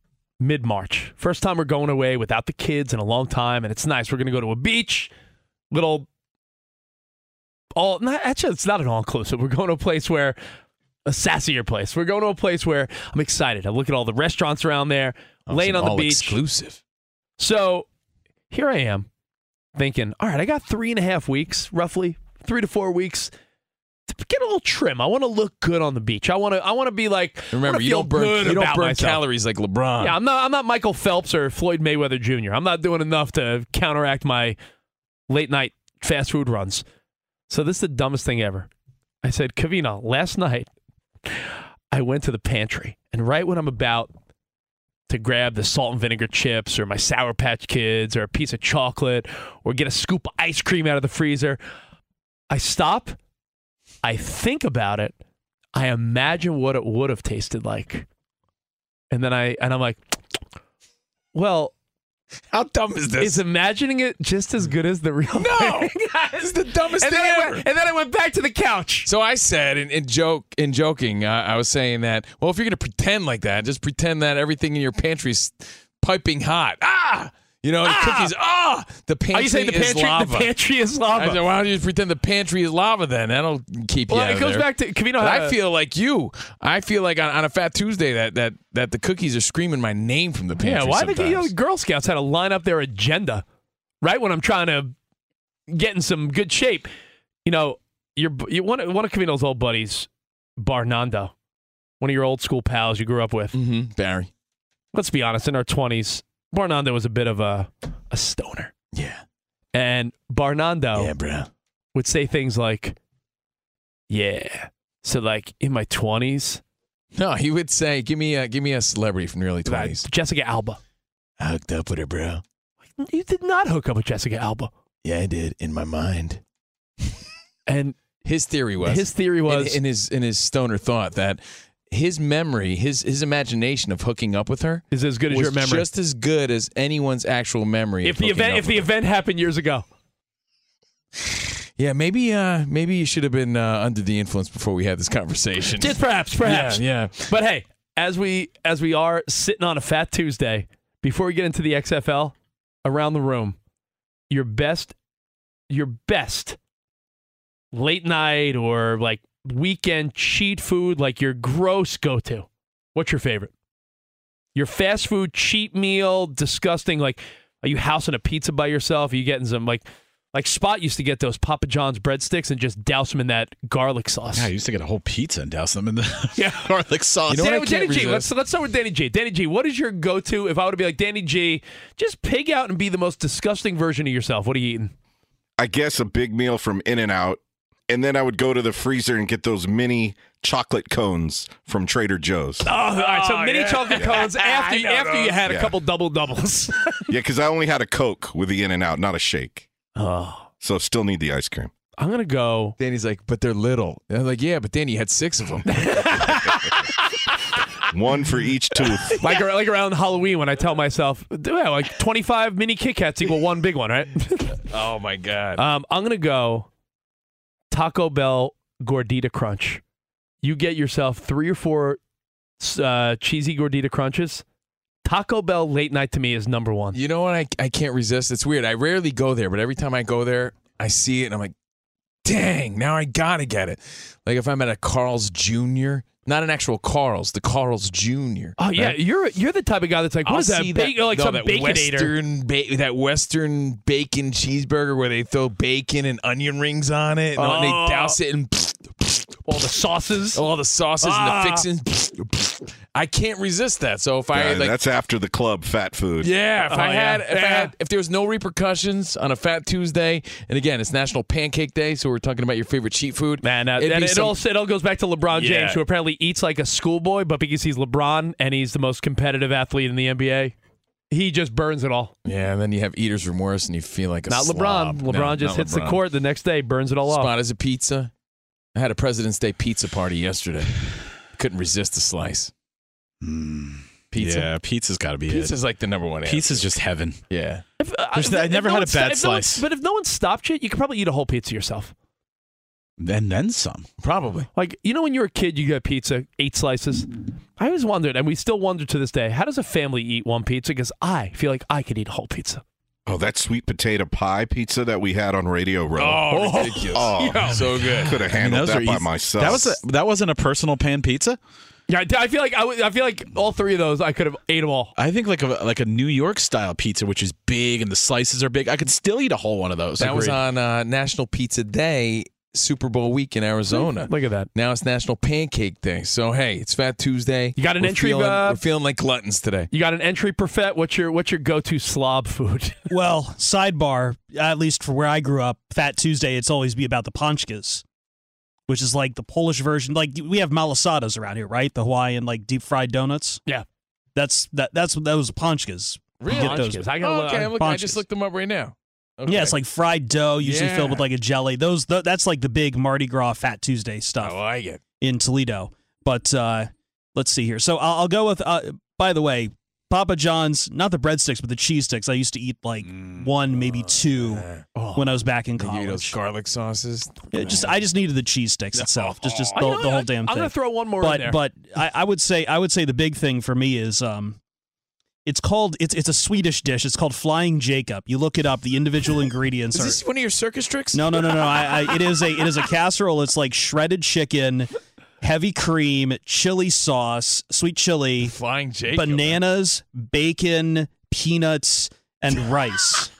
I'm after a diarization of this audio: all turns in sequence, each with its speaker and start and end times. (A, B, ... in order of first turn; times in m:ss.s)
0:00.4-0:05.1 A
0:05.7-0:06.1 A
0:07.7-0:10.4 A
0:11.0-0:16.4 A
0:15.5-0:16.8 B
0:17.4-0:17.8 A
0:18.5-0:19.1 A
0:19.8-0:23.3 A
0:24.1-0:29.2 A
0:27.5-0:30.2 B
0:30.0-0:34.6 A
0:35.3-0:36.8 A
0:37.5-0:38.7 A
0:39.2-0:40.7 A
0:41.3-0:44.1 A
0:45.1-0:51.6 A
0:52.5-0:53.2 A
0:54.0-0:55.2 A
0:55.7-0:58.0 A
0:59.1-1:00.0 A
1:01.3-1:01.7 A
1:02.5-1:03.4 B
1:03.2-1:06.4 A
1:05.3-1:07.6 B
1:07.0-1:09.1 A
1:09.0-1:20.5 B
1:17.8-1:18.3 A
1:19.3-1:21.4 A
1:21.2-1:24.6 B
1:24.1-1:25.6 A
1:25.2-1:31.5 B
1:30.6-1:33.4 A
1:34.0-1:34.9 A
1:35.7-1:36.9 A
1:37.4-1:41.3 A
1:42.0-1:43.5 A
1:43.5-1:44.3 B
1:44.9-1:48.7 A
1:48.9-1:49.2 B
1:49.7-1:51.1 A
1:51.0-1:51.5 B
1:51.9-1:53.0 A
1:54.1-1:56.6 A
1:57.1-2:00.0 B
1:59.6-2:00.8 A
2:01.4-2:02.4 B
2:03.0-2:04.7 A
2:05.0-2:06.4 B
2:07.7-2:07.9 A
2:08.2-2:18.9 B
2:08.8-2:09.8 A
2:14.9-2:15.9 A
2:18.0-2:19.8 A
2:21.8-2:27.3 B
2:25.8-2:33.6 A
2:34.3-2:34.9 A
2:35.7-2:36.6 A
2:37.7-2:43.5 A
2:44.5-2:54.5 A
2:54.3-2:57.5 C
2:56.4-2:56.7 A
2:57.3-2:58.2 B
2:57.3-3:04.9 A
3:05.6-3:12.7 D
3:12.6-3:17.1 A
3:12.6-3:15.4 B
3:15.4-3:15.7 D
3:17.1-3:19.7 D
3:20.0-3:20.5 A
3:20.6-3:21.7 D
3:22.0-3:22.7 A
3:22.8-3:26.4 B
3:25.7-3:27.0 A
3:27.9-3:29.2 D
3:29.2-3:34.6 A
3:34.7-3:35.6 B
3:35.6-3:36.7 A
3:37.7-3:39.8 A
3:40.4-3:42.0 A
3:42.6-3:44.4 A
3:45.0-3:47.0 A
3:46.9-3:51.5 B
3:52.2-3:59.0 B
3:58.6-4:02.1 A
4:00.2-4:09.3 B
4:07.4-4:08.2 A
4:09.4-4:10.4 A
4:10.3-4:14.8 B
4:11.0-4:11.6 A
4:14.3-4:16.3 D
4:16.2-4:24.4 B
4:16.6-4:17.7 A
4:23.4-4:30.5 A
4:25.3-4:25.8 B
4:31.1-4:32.1 A
4:32.2-4:36.0 B
4:34.3-4:37.3 A
4:37.1-4:38.1 B
4:38.7-4:40.8 B
4:41.3-4:42.5 B
4:43.2-4:45.6 C
4:44.1-4:44.5 B
4:45.3-4:46.7 B
4:46.2-4:47.2 C
4:47.3-4:47.6 B
4:47.8-4:51.9 A
4:48.1-4:49.6 C
4:53.0-4:53.8 C
4:54.0-4:54.5 B
4:54.5-5:02.6 A
5:03.1-5:06.4 D
5:06.0-5:08.1 B
5:06.3-5:07.8 A
5:06.9-5:09.8 D
5:07.9-5:11.4 C
5:11.9-5:14.9 A
5:15.0-5:20.3 C
5:20.0-5:29.7 B
5:23.7-5:24.5 A
5:27.6-5:28.6 A
5:29.7-5:32.9 A
5:32.9-5:37.8 E
5:38.7-5:43.4 E
5:44.2-5:47.0 E
5:46.2-5:49.6 B
5:46.3-5:47.5 A
5:47.5-5:48.0 E
5:49.2-5:54.4 E
5:50.4-5:51.0 B
5:54.2-5:54.8 B
5:55.0-6:06.2 E
6:03.6-6:04.6 B
6:04.8-6:05.1 A
6:05.6-6:07.6 B
6:07.3-6:14.4 E
6:08.8-6:09.6 B
6:09.5-6:11.4 A
6:15.2-6:20.0 E
6:19.7-6:21.2 B
6:20.9-6:24.7 E
6:25.2-6:28.3 E
6:28.2-6:29.4 B
6:28.9-6:33.1 E